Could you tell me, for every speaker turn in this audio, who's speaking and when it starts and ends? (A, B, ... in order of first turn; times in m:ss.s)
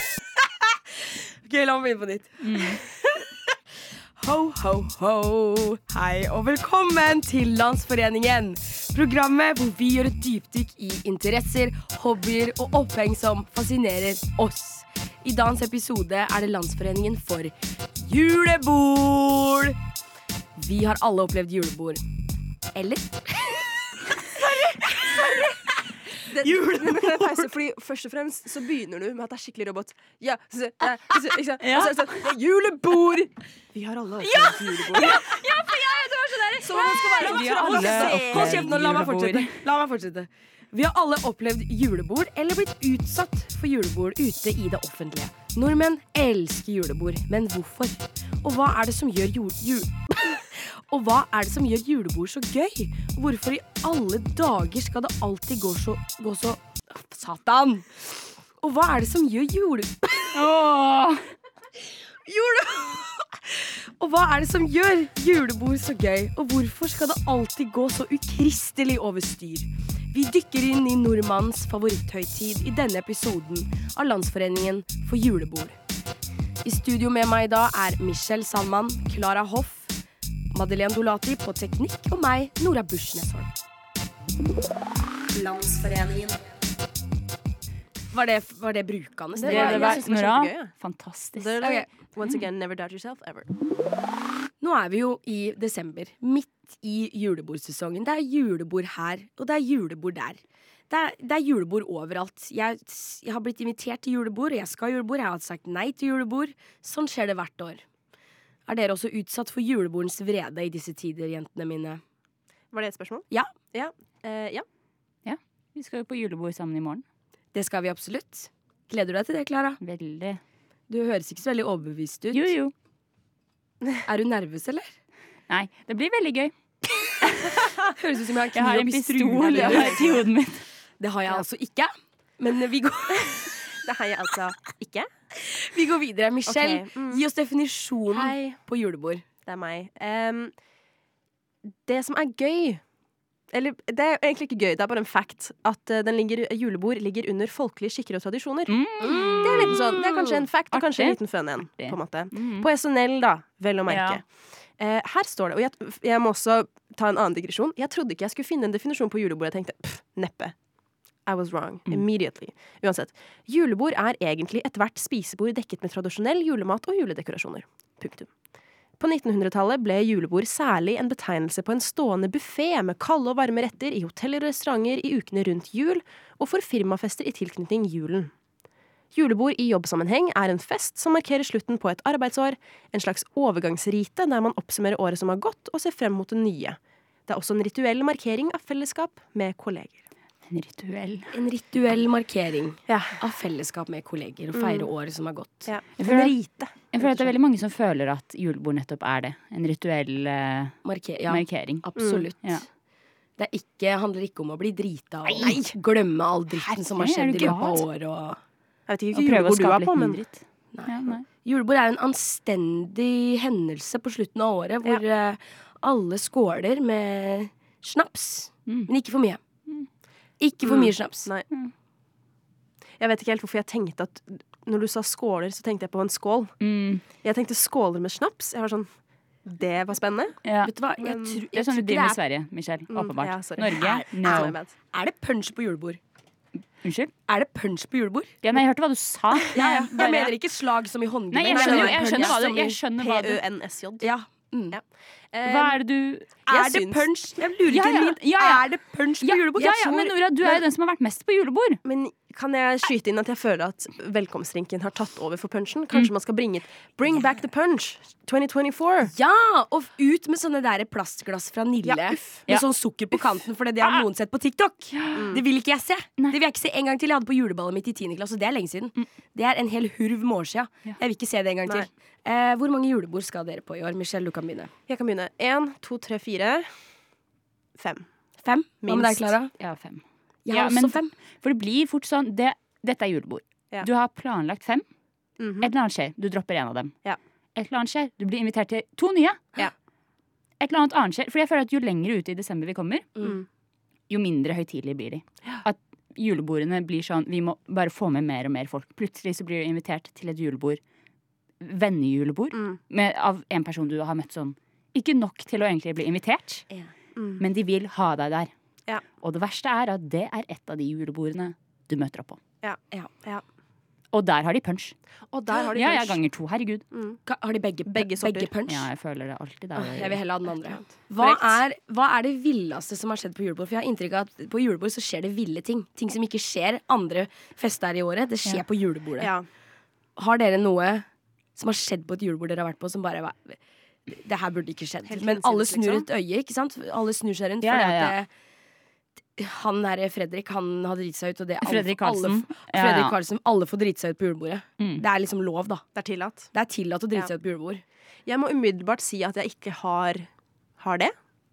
0:00.4-0:03.5 A
0:02.4-0:02.8 B
0:04.2-0:19.8 A
0:20.6-0:22.0 A
0:22.7-0:25.6 A
0:26.2-0:27.5 A
0:26.3-0:35.3 C
0:31.6-0:32.2 B
0:34.2-1:00.4 A
0:34.9-0:39.6 B
0:36.6-0:38.7 C
1:00.3-1:01.2 B
1:02.2-1:15.8 A
1:16.6-1:19.9 A
1:20.5-1:23.5 A
1:25.3-1:26.4 A
1:28.1-1:30.0 A
1:29.3-1:30.7 C
1:29.4-1:31.6 B
1:31.3-1:33.5 C
1:31.6-1:31.9 A
1:34.6-1:47.8 A
1:48.7-1:52.0 A
1:52.7-1:54.6 C
1:55.2-1:57.0 B
1:57.5-1:59.8 A
1:59.8-2:00.4 B
2:00.9-2:02.5 A
2:02.3-2:02.7 B
2:04.0-2:04.9 A
2:05.5-2:06.5 B
2:07.2-2:07.5 B
2:07.2-2:10.2 A
2:08.5-2:10.6 B
2:09.5-2:10.1 C
2:11.0-2:13.6 A
2:13.8-2:15.1 C
2:15.4-2:19.2 A
2:16.5-2:17.2 C
2:18.1-2:18.6 C
2:19.4-2:20.5 C
2:21.8-2:22.8 C
2:23.5-2:28.8 C
2:28.7-2:29.8 B
2:29.0-2:30.4 A
2:29.4-2:34.2 C
2:30.7-2:31.2 B
2:31.8-2:32.7 B
2:33.9-2:34.2 B
2:34.8-2:40.5 C
2:41.2-2:48.3 C
2:49.0-2:58.3 C
2:59.1-3:10.0 C
3:10.5-3:11.3 B
3:11.3-3:16.4 A
3:12.9-3:13.2 C
3:14.5-3:14.9 C
3:15.6-3:16.7 C
3:16.0-3:16.3 B
3:16.9-3:21.9 B
3:17.0-3:17.3 A
3:20.8-3:22.6 A
3:22.0-3:22.3 C
3:23.4-3:28.4 A
3:25.2-3:25.6 B
3:25.4-3:25.7 C
3:26.9-3:27.8 B
3:28.9-3:30.2 C
3:29.1-3:31.2 B
3:30.7-3:39.4 A
3:40.4-3:41.3 A
3:40.6-3:41.4 C
3:43.0-3:46.5 C
3:46.6-3:47.0 B
3:47.2-3:48.9 C
3:49.4-3:50.4 C
3:50.4-3:50.7 B
3:50.6-3:52.2 A
3:51.0-3:51.4 C
3:51.5-3:54.6 B
3:52.9-3:54.7 C
3:53.8-3:56.0 A
3:56.8-3:57.1 B
3:57.3-3:58.3 A
3:58.4-4:00.4 B
3:59.5-4:02.8 A
4:01.3-4:03.4 B
4:01.4-4:04.1 C
4:04.0-4:04.8 A
4:04.7-4:05.8 C
4:05.4-4:06.3 B
4:06.4-4:07.1 C
4:06.5-4:10.6 A
4:07.7-4:08.7 B
4:09.2-4:11.8 B
4:11.8-4:19.1 C
4:19.0-4:34.7 A
4:21.8-4:22.4 C
4:23.8-4:24.1 B
4:24.9-4:25.4 B
4:25.1-4:25.4 C
4:34.9-4:36.7 C
4:37.8-4:38.0 C
4:38.4-4:39.5 A
4:38.8-4:39.3 C
4:39.6-4:44.8 B
4:40.4-4:41.1 A
4:45.4-4:45.7 C
4:45.6-4:46.9 B
4:47.5-4:49.5 B
4:50.6-4:53.1 B
4:54.1-5:00.8 B
5:01.6-5:06.6 B
5:02.5-5:02.8 C
5:07.2-5:07.4 C
5:07.4-5:08.5 B
5:09.2-5:12.4 B
5:12.6-5:13.4 C
5:14.1-5:14.9 B
5:15.3-5:16.2 C
5:15.7-5:16.8 B
5:16.9-5:17.2 C
5:17.2-5:18.9 A
5:17.9-5:18.5 C
5:18.7-5:20.2 B
5:19.7-5:29.3 A
5:20.8-5:21.6 C
5:29.2-5:29.4 C
5:30.2-5:31.0 A
5:31.6-5:38.3 A
5:35.1-5:36.0 C
5:37.6-5:38.2 B
5:39.4-5:45.8 A
5:41.6-5:43.2 B
5:45.9-5:46.5 C
5:46.5-5:47.8 A
5:48.2-5:50.2 C
5:50.8-5:51.1 C